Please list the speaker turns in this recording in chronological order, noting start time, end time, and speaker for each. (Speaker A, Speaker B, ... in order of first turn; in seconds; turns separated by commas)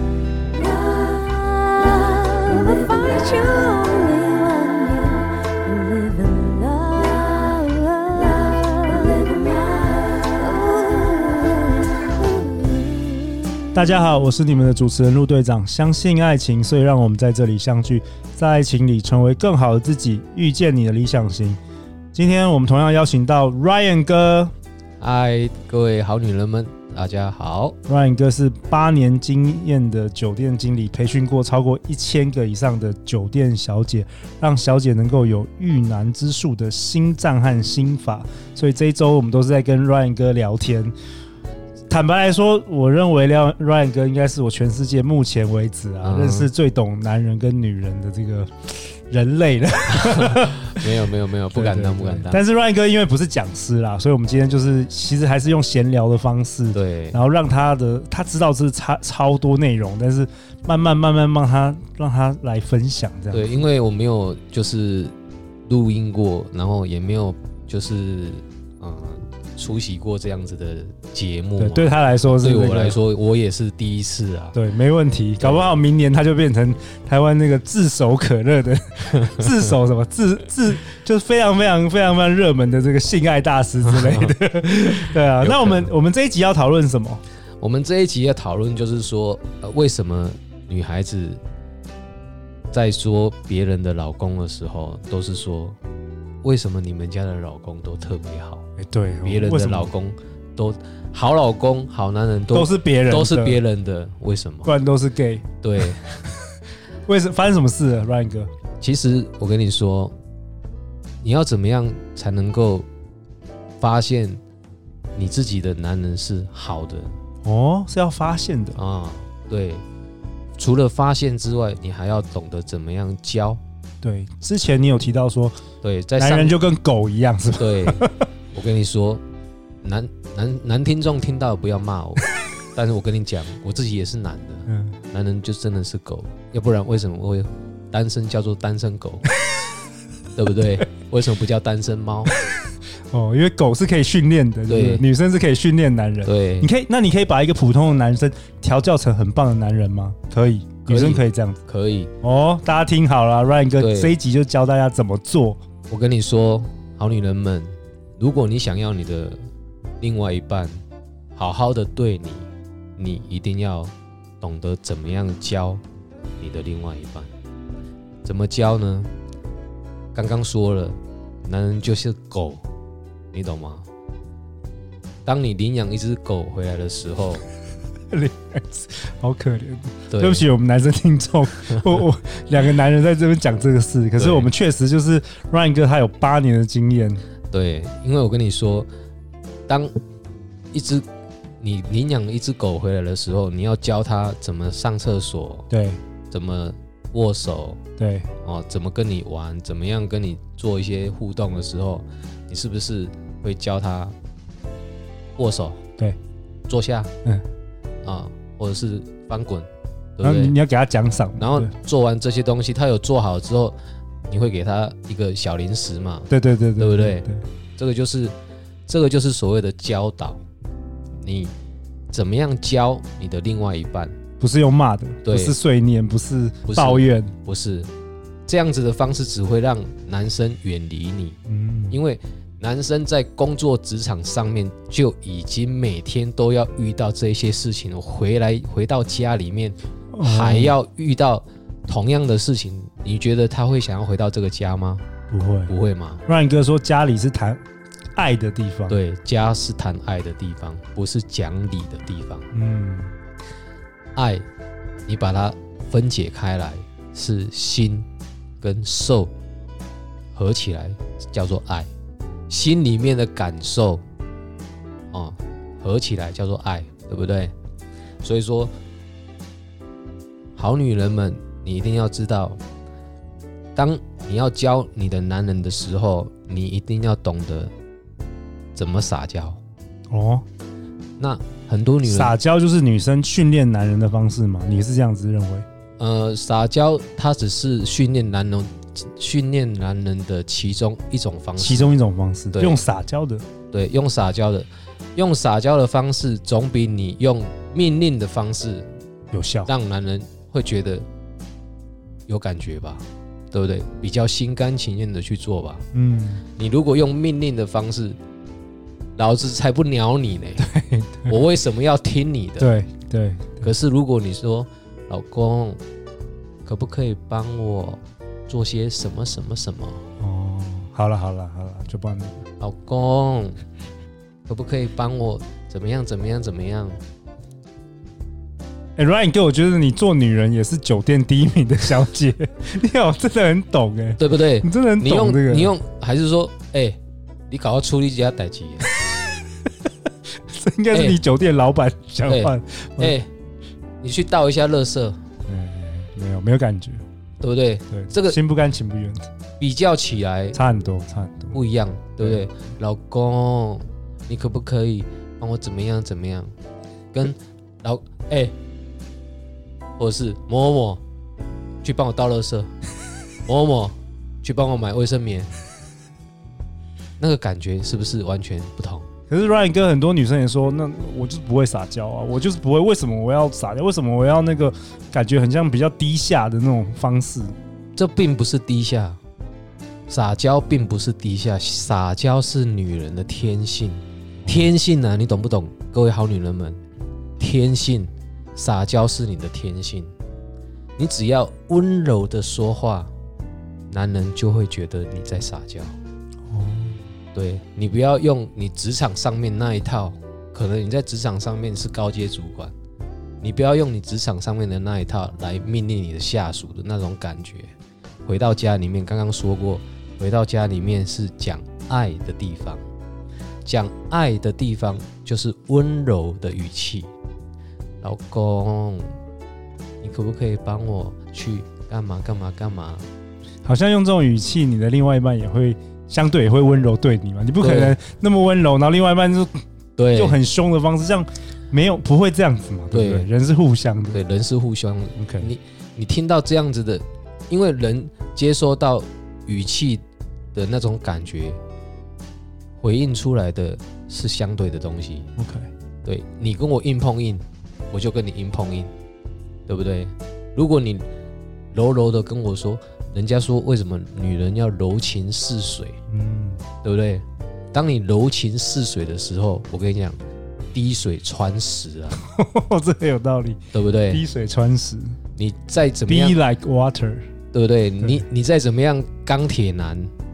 Speaker A: 1.3-11.6, Speaker A: 12.4-13.3, Speaker B: 13.7-21.6, Speaker B: 22.1-24.5, Speaker C: 25.0-27.8, Speaker B: 27.9-40.9, Speaker B: 41.9-50.8, Speaker C: 46.0-46.5, Speaker C: 50.0-52.4, Speaker B: 51.5-63.6, Speaker C: 56.7-57.2, Speaker C: 63.3-65.1, Speaker C: 65.7-74.5, Speaker B: 71.6-73.0, Speaker B: 74.5-87.2, Speaker C: 75.4-75.7, Speaker C: 83.8-84.3, Speaker C: 85.4-85.9, Speaker C: 87.6-91.4, Speaker C: 92.7-95.8, Speaker C: 96.4-98.6, Speaker B: 98.8-99.9, Speaker C: 99.2-104.7, Speaker B: 102.5-103.6, Speaker B: 104.6-105.9, Speaker C: 105.6-106.2, Speaker B: 107.0-108.5, Speaker C: 108.8-110.1, Speaker C: 111.2-112.9, Speaker C: 113.8-114.4, Speaker C: 115.1-117.2, Speaker B: 117.4-118.8, Speaker C: 118.8-119.8, Speaker C: 120.6-123.6, Speaker B: 124.0-125.6, Speaker C: 125.8-126.5, Speaker B: 126.2-128.2, Speaker C: 127.6-129.2, Speaker C: 129.8-139.3, Speaker B: 134.7-135.0, Speaker C: 140.3-142.3, Speaker B: 143.1-151.6, Speaker C: 144.7-145.0, Speaker C: 146.2-146.7, Speaker C: 150.8-152.1, Speaker B: 152.2-155.6, Speaker C: 153.8-154.1, Speaker C: 155.9-159.5, Speaker C: 160.0-160.8, Speaker C: 161.3-165.8, Speaker C: 166.4-167.3, Speaker C: 168.2-169.1, Speaker C: 170.1-172.6, Speaker C: 173.3-173.8, Speaker C: 175.2-177.4, Speaker B: 178.1-187.2, Speaker C: 180.1-180.4, Speaker C: 181.6-182.0, Speaker C: 184.2-184.5, Speaker C: 187.5-188.9, Speaker C: 189.7-189.9, Speaker C: 190.7-191.0, Speaker C: 191.6-195.7, Speaker B: 195.7-196.0, Speaker C: 196.3-197.8, Speaker B: 198.0-198.3, Speaker C: 198.4-204.1, Speaker C: 205.4-205.8, Speaker C: 206.7-207.1, Speaker C: 208.0-210.5, Speaker B: 210.2-211.7, Speaker C: 211.4-213.8, Speaker C: 214.3-218.3, Speaker B: 216.3-217.4, Speaker C: 218.9-220.4, Speaker C: 221.2-221.5, Speaker C: 222.1-224.1, Speaker B: 224.4-227.3, Speaker C: 225.2-225.6, Speaker C: 226.7-227.9, Speaker C: 228.5-231.4, Speaker B: 231.5-232.0, Speaker C: 231.9-245.0, Speaker B: 240.1-240.7, Speaker B: 245.3-245.7, Speaker C: 245.7-246.2, Speaker B: 246.2-247.6, Speaker B: 248.1-249.0, Speaker C: 248.9-252.5, Speaker B: 252.5-253.1, Speaker C: 254.1-254.4, Speaker C: 255.1-258.1, Speaker C: 258.6-259.3, Speaker C: 260.3-261.9, Speaker C: 262.5-264.0, Speaker C: 265.1-267.5, Speaker C: 268.2-268.7, Speaker C: 270.6-272.6, Speaker C: 273.8-277.7, Speaker C: 278.7-279.6, Speaker B: 280.1-280.4, Speaker C: 281.2-282.4, Speaker B: 282.0-285.6, Speaker C: 286.0-292.0, Speaker B: 291.6-293.4, Speaker C: 292.5-292.8, Speaker C: 293.7-298.9, Speaker B: 299.3-299.7, Speaker C: 299.6-301.1, Speaker C: 302.3-305.8, Speaker B: 305.9-306.4, Speaker C: 306.6-308.2, Speaker C: 309.1-310.6, Speaker B: 310.6-311.4, Speaker C: 311.3-312.7, Speaker B: 312.6-313.7, Speaker C: 313.6-315.8, Speaker C: 316.6-320.0, Speaker B: 320.2-322.4, Speaker C: 322.6-323.6, Speaker C: 324.5-327.0, Speaker B: 329.0-335.7, Speaker C: 334.2-337.0, Speaker C: 337.5-339.3, Speaker B: 340.4-343.2, Speaker C: 340.9-341.2, Speaker C: 342.2-343.3, Speaker C: 344.0-345.2, Speaker B: 345.5-347.0, Speaker C: 347.4-348.4, Speaker B: 347.9-349.3, Speaker C: 349.6-350.6, Speaker B: 350.5-351.6, Speaker C: 351.5-356.5, Speaker B: 352.2-352.4, Speaker C: 357.1-358.6, Speaker C: 360.0-361.0, Speaker C: 361.8-362.7, Speaker C: 363.4-365.5, Speaker C: 367.2-369.1, Speaker B: 369.3-377.5, Speaker C: 377.9-379.2, Speaker C: 380.1-386.8, Speaker B: 384.4-384.7, Speaker C: 387.4-390.1, Speaker C: 391.0-393.1, Speaker C: 393.9-396.0, Speaker B: 396.5-397.0, Speaker C: 397.3-402.7, Speaker C: 403.4-407.7, Speaker C: 408.2-412.8, Speaker C: 413.6-417.1, Speaker C: 418.0-419.1, Speaker C: 420.0-423.1, Speaker B: 423.6-434.2, Speaker C: 427.6-428.0, Speaker C: 430.0-430.4, Speaker C: 432.9-433.3, Speaker C: 434.1-440.0, Speaker B: 435.2-435.5, Speaker C: 440.5-441.6, Speaker C: 442.8-445.3, Speaker B: 445.4-445.7, Speaker C: 446.0-448.9, Speaker C: 449.7-451.1, Speaker C: 451.7-456.0, Speaker B: 456.1-456.6, Speaker C: 456.8-460.2, Speaker C: 460.7-462.2, Speaker B: 462.2-465.2, Speaker C: 463.7-464.2, Speaker C: 465.3-466.4, Speaker B: 466.1-467.3, Speaker C: 467.5-470.1